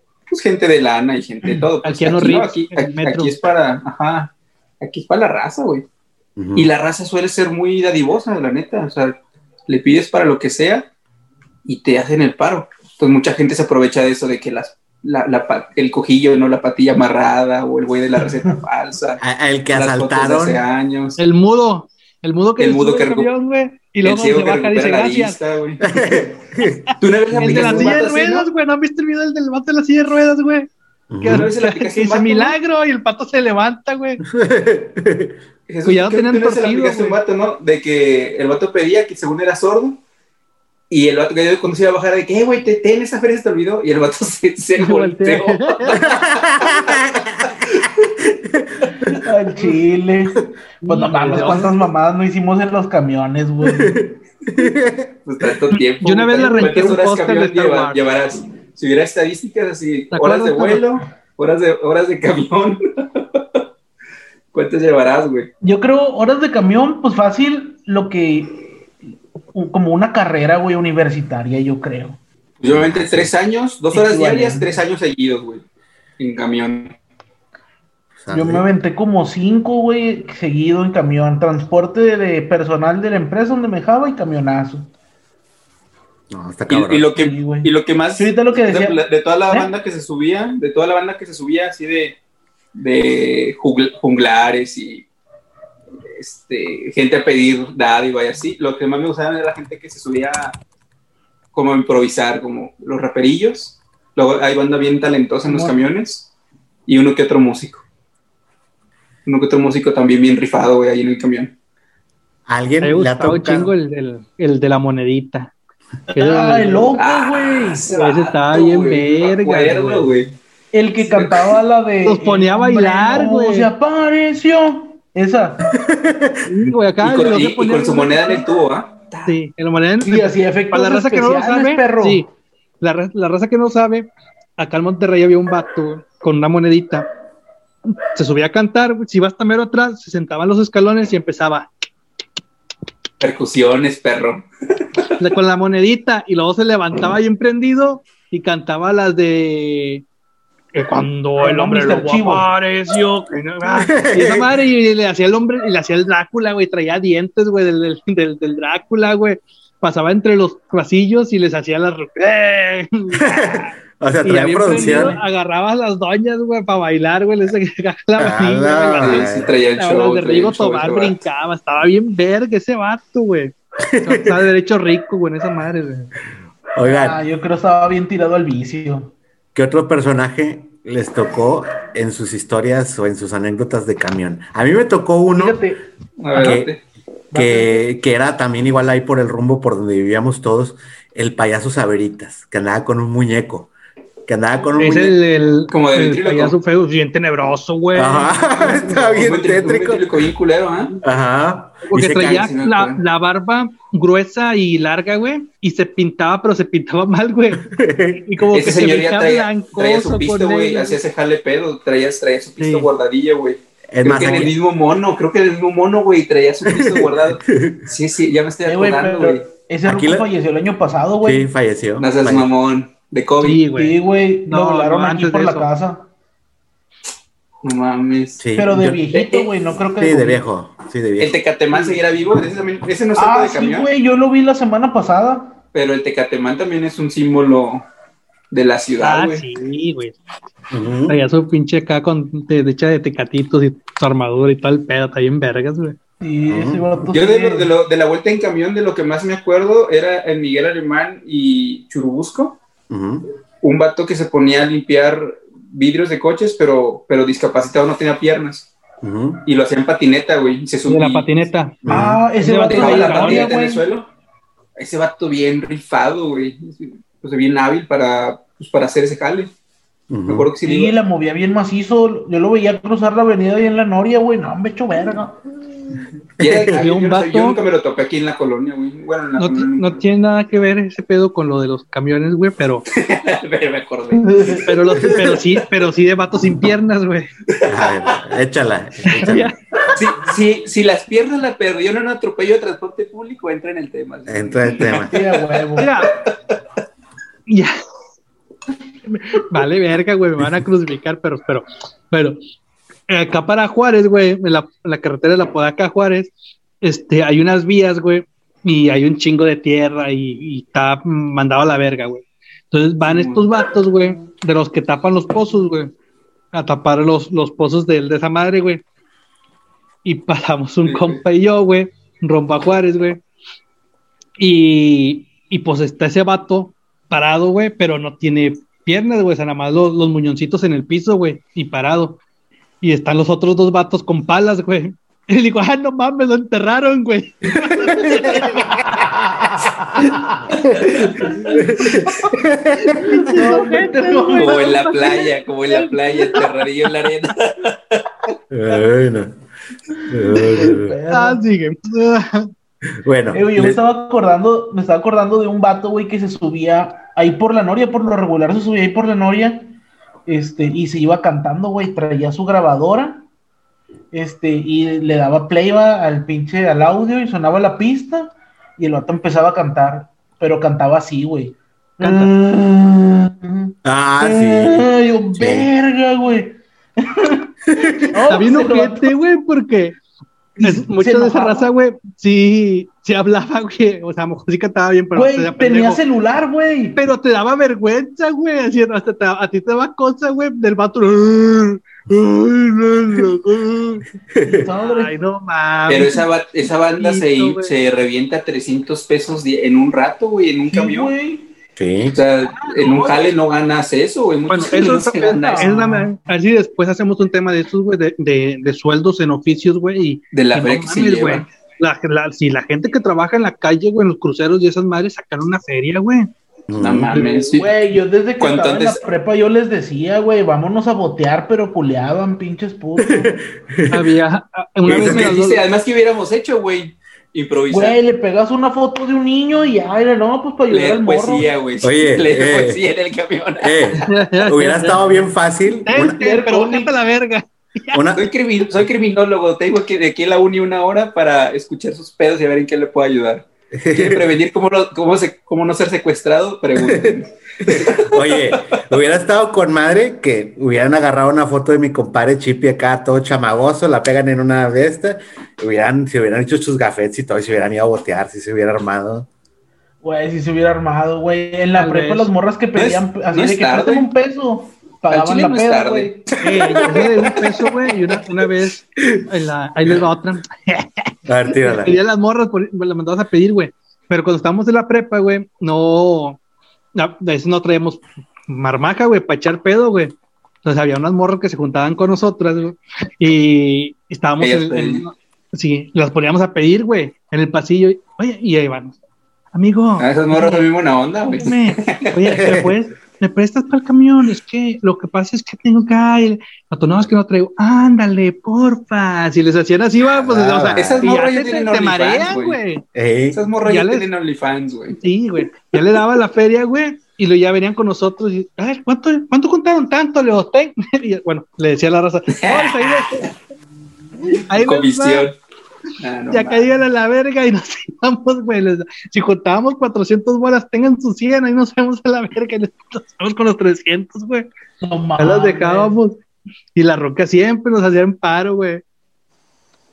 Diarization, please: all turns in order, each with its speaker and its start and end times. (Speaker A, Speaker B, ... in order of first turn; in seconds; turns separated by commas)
Speaker A: 0.3-5.9, Speaker B: 1.8-3.4, Speaker C: 6.4-6.7, Speaker A: 6.5-10.9, Speaker A: 11.7-21.2, Speaker C: 19.2-20.6, Speaker B: 21.2-25.4, Speaker A: 22.6-23.3, Speaker A: 24.0-25.9, Speaker C: 25.8-26.9, Speaker B: 26.9-30.7, Speaker A: 27.0-28.5, Speaker C: 27.5-28.0, Speaker C: 31.1-31.5, Speaker B: 31.2-34.2, Speaker A: 31.2-32.6, Speaker C: 34.3-35.4, Speaker A: 35.7-40.0, Speaker B: 35.9-37.2, Speaker A: 40.9-47.0, Speaker B: 44.8-46.0, Speaker C: 46.0-49.3, Speaker D: 49.0-54.0, Speaker B: 50.9-51.7, Speaker A: 51.3-51.6, Speaker C: 53.7-55.8, Speaker A: 55.2-63.4, Speaker B: 56.0-58.0, Speaker B: 60.1-60.9, Speaker A: 64.5-65.5, Speaker D: 65.6-68.9, Speaker D: 69.5-72.2, Speaker A: 72.6-75.7, Speaker C: 72.7-73.3, Speaker D: 73.9-74.8, Speaker A: 76.2-77.0, Speaker C: 78.2-78.7, Speaker D: 78.3-84.9, Speaker C: 86.3-87.1, Speaker A: 86.7-92.2, Speaker D: 87.2-89.7, Speaker A: 92.8-95.1, Speaker A: 96.1-100.6, Speaker A: 101.5-106.3, Speaker D: 105.5-105.8, Speaker A: 106.9-107.8, Speaker A: 109.3-111.5, Speaker C: 112.5-113.7, Speaker B: 112.8-115.5, Speaker D: 116.1-117.9, Speaker B: 116.1-116.9, Speaker A: 117.0-120.3, Speaker B: 117.9-120.1, Speaker D: 120.7-125.7, Speaker A: 121.0-121.6, Speaker B: 122.0-123.7, Speaker C: 125.7-126.7, Speaker B: 126.5-128.4, Speaker A: 127.0-129.3, Speaker B: 129.3-137.1, Speaker D: 130.0-132.2, Speaker B: 138.1-141.7, Speaker A: 143.2-144.5, Speaker B: 145.2-150.0, Speaker B: 150.7-176.1, Speaker D: 151.4-152.5, Speaker C: 153.8-154.5, Speaker C: 163.2-165.2, Speaker D: 164.7-165.2, Speaker C: 168.2-169.5, Speaker A: 169.0-171.2, Speaker C: 173.9-174.4, Speaker C: 176.8-177.2, Speaker D: 176.8-179.1, Speaker C: 179.6-185.6, Speaker D: 185.3-185.8, Speaker A: 186.2-186.8, Speaker C: 186.4-186.8, Speaker D: 187.3-187.8, Speaker C: 187.3-193.7, Speaker C: 194.3-195.2, Speaker B: 194.8-199.1, Speaker A: 195.7-196.6, Speaker C: 197.9-200.1, Speaker A: 198.7-200.9, Speaker C: 201.0-202.5, Speaker B: 201.8-207.7, Speaker A: 202.2-203.0, Speaker C: 207.6-208.3, Speaker B: 208.2-211.0, Speaker A: 208.5-219.4, Speaker B: 212.6-212.9, Speaker C: 213.9-214.5, Speaker C: 216.7-217.9, Speaker D: 218.7-221.5, Speaker C: 219.8-220.3, Speaker C: 221.2-222.5, Speaker A: 222.0-223.7, Speaker B: 223.4-224.0, Speaker D: 223.7-226.1, Speaker B: 224.5-225.7, Speaker A: 227.6-228.4, Speaker C: 228.4-229.2, Speaker D: 228.6-230.4, Speaker A: 229.1-229.5, Speaker C: 230.0-231.4, Speaker A: 231.2-233.9, Speaker D: 231.7-232.0, Speaker D: 233.2-235.6, Speaker A: 235.7-237.9, Speaker A: 238.5-239.4, Speaker B: 239.0-240.2, Speaker C: 240.7-241.2, Speaker B: 241.1-246.0, Speaker D: 246.2-247.7, Speaker C: 246.5-247.0, Speaker A: 247.1-252.6, Speaker C: 252.9-253.3, Speaker A: 253.6-258.7, Speaker C: 259.0-259.4, Speaker A: 259.4-261.3, Speaker B: 260.9-261.8, Speaker C: 261.8-262.2, Speaker D: 261.9-263.8, Speaker B: 262.4-263.5, Speaker A: 262.6-264.1, Speaker A: 264.8-269.5, Speaker C: 270.1-270.5, Speaker A: 270.3-270.9, Speaker D: 270.6-276.1, Speaker C: 276.4-276.7, Speaker A: 276.4-279.9, Speaker B: 276.7-277.6, Speaker B: 279.4-282.9, Speaker A: 283.0-284.6, Speaker D: 284.1-285.2, Speaker B: 284.7-287.3, Speaker A: 287.5-288.2, Speaker C: 287.6-289.5, Speaker B: 289.1-289.6, Speaker A: 289.9-296.3, Speaker C: 294.3-295.2, Speaker D: 295.1-295.9, Speaker B: 295.8-296.1, Speaker B: 297.5-297.7, Speaker B: 299.1-302.4, Speaker B: 303.1-315.9, Speaker A: 313.0-313.5, Speaker B: 316.5-318.8, Speaker B: 320.0-323.2, Speaker A: 320.8-321.2, Speaker B: 324.4-332.2, Speaker B: 332.8-338.6, Speaker C: 337.9-338.4, Speaker D: 337.9-341.6, Speaker C: 340.6-343.2, Speaker B: 341.3-341.9, Speaker B: 342.8-346.6, Speaker D: 343.2-344.9, Speaker A: 344.4-348.0, Speaker C: 348.5-349.3, Speaker C: 350.1-351.0, Speaker D: 350.3-351.4, Speaker B: 351.1-352.5, Speaker C: 352.9-353.8, Speaker D: 353.3-359.7, Speaker D: 360.3-363.2, Speaker D: 364.1-379.1, Speaker B: 372.0-372.3, Speaker C: 373.9-375.7, Speaker C: 377.7-378.4, Speaker B: 378.3-380.0, Speaker D: 380.6-381.7, Speaker B: 380.6-386.0, Speaker D: 385.1-387.0, Speaker B: 386.9-394.1, Speaker C: 394.3-394.7, Speaker D: 394.4-395.1, Speaker B: 394.8-396.3, Speaker A: 395.9-401.1, Speaker B: 397.0-397.7, Speaker D: 400.7-401.5, Speaker C: 401.8-402.2, Speaker A: 402.1-405.8, Speaker D: 402.8-403.1, Speaker B: 404.5-416.3, Speaker D: 405.1-406.1, Speaker A: 410.3-411.5, Speaker C: 416.7-417.1, Speaker A: 416.8-417.8, Speaker D: 417.5-423.3, Speaker A: 418.4-419.0, Speaker C: 423.1-424.1, Speaker B: 423.9-425.6, Speaker C: 424.9-425.4, Speaker A: 424.9-428.0, Speaker D: 427.7-431.5, Speaker A: 430.7-434.1, Speaker C: 431.8-432.8, Speaker C: 433.6-436.2, Speaker B: 434.1-435.0, Speaker B: 435.8-438.0, Speaker D: 435.9-436.9, Speaker C: 437.9-438.3, Speaker A: 438.1-448.8, Speaker C: 443.7-444.3, Speaker C: 446.8-459.3, Speaker D: 460.0-466.3, Speaker B: 461.8-462.3, Speaker A: 462.8-464.1, Speaker A: 465.1-466.3, Speaker B: 466.4-476.4, Speaker C: 466.7-467.4, Speaker C: 471.3-472.0, Speaker B: 477.0-489.0, Speaker A: 484.4-485.1, Speaker B: 489.5-490.7, Speaker A: 490.0-492.3, Speaker B: 491.3-502.8, Speaker C: 492.4-492.8, Speaker C: 500.1-501.0, Speaker A: 500.8-502.6, Speaker C: 502.9-503.4, Speaker A: 503.3-505.0, Speaker B: 503.6-504.1, Speaker B: 505.0-513.3, Speaker A: 512.3-513.3, Speaker A: 514.3-515.4, Speaker B: 514.4-515.3, Speaker A: 516.0-516.7, Speaker B: 516.3-524.5, Speaker D: 524.8-526.0, Speaker B: 525.2-526.2, Speaker B: 526.8-528.8